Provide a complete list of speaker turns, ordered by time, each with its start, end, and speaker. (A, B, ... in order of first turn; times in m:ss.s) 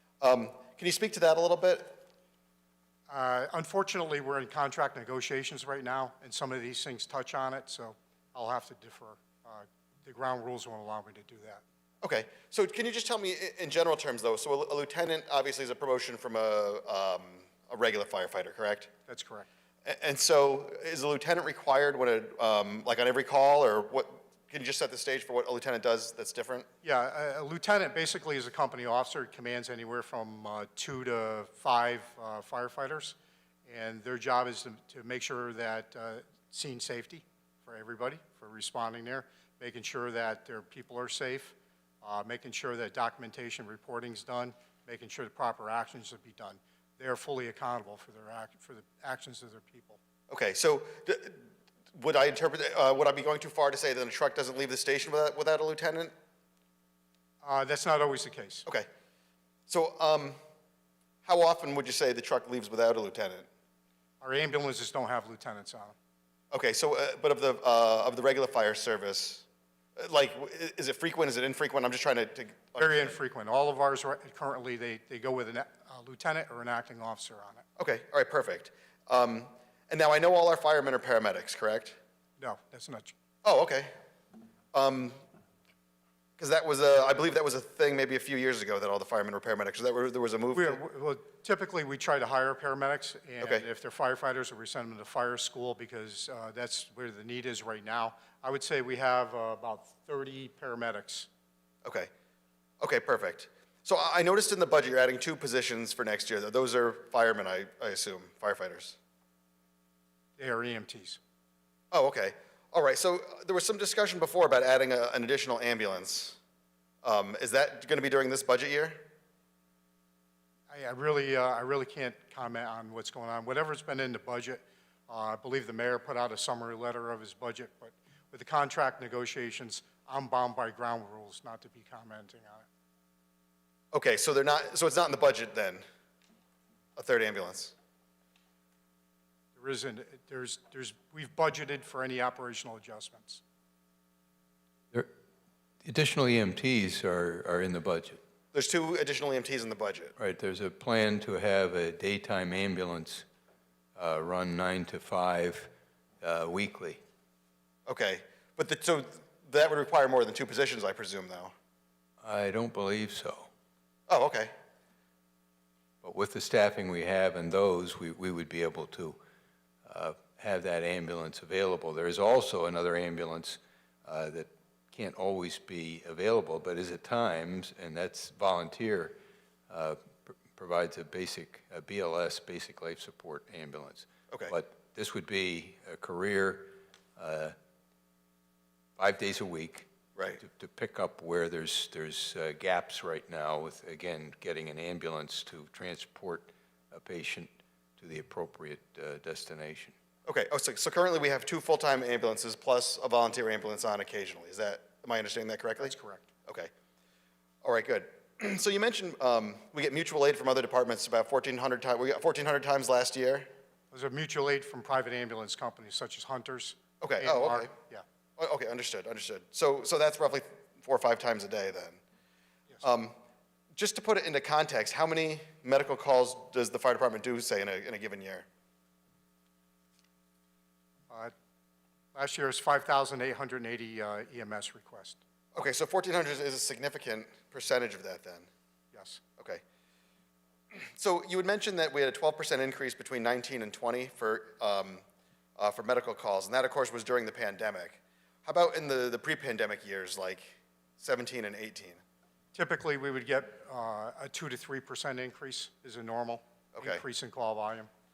0:00.2-0:02.0 A
0:03.1-0:11.6 B
0:12.0-0:18.9 A
0:19.1-0:19.5 B
0:19.8-0:26.7 A
0:26.8-0:50.0 B
0:50.3-0:51.4 A
0:52.0-0:56.1 A
0:57.4-0:58.7 B
0:59.7-1:00.4 A
1:01.2-1:03.5 A
1:04.2-1:06.0 B
1:06.5-1:09.5 A
1:10.0-1:13.2 A
1:12.8-1:17.7 B
1:17.8-1:22.0 A
1:22.4-1:23.1 B
1:23.4-1:23.9 A
1:24.7-1:25.2 A
1:26.4-1:30.8 A
1:30.6-1:41.3 B
1:33.4-1:33.7 A
1:41.8-1:42.1 A
1:42.8-1:49.0 A
1:50.4-1:51.2 B
1:51.9-1:56.4 A
1:57.0-1:59.1 A
2:00.7-2:12.7 B
2:13.9-2:15.8 A
2:17.0-2:17.8 A
2:19.6-2:23.4 B
2:25.8-2:28.2 C
2:28.5-2:30.1 A
2:30.2-2:33.2 C
2:34.0-2:35.7 C
2:36.2-2:37.0 C
2:37.9-2:41.5 A
2:42.2-2:43.5 C
2:44.1-2:44.5 A
2:46.0-2:49.2 C
2:49.9-2:59.2 C
2:59.7-3:07.6 C
3:09.0-3:19.9 C
3:10.2-3:10.4 A
3:20.3-3:26.0 A
3:25.8-3:26.3 B
3:27.6-3:33.5 A
3:33.9-3:38.0 B
3:37.0-3:37.7 A
3:38.4-3:42.0 A
3:42.8-3:43.2 A
3:43.7-3:48.5 A
3:52.1-3:55.2 B
3:55.6-3:58.5 A
3:58.9-3:59.2 B
4:00.7-4:05.0 A
4:05.6-4:12.0 A
4:12.5-4:17.9 B
4:16.8-4:17.0 A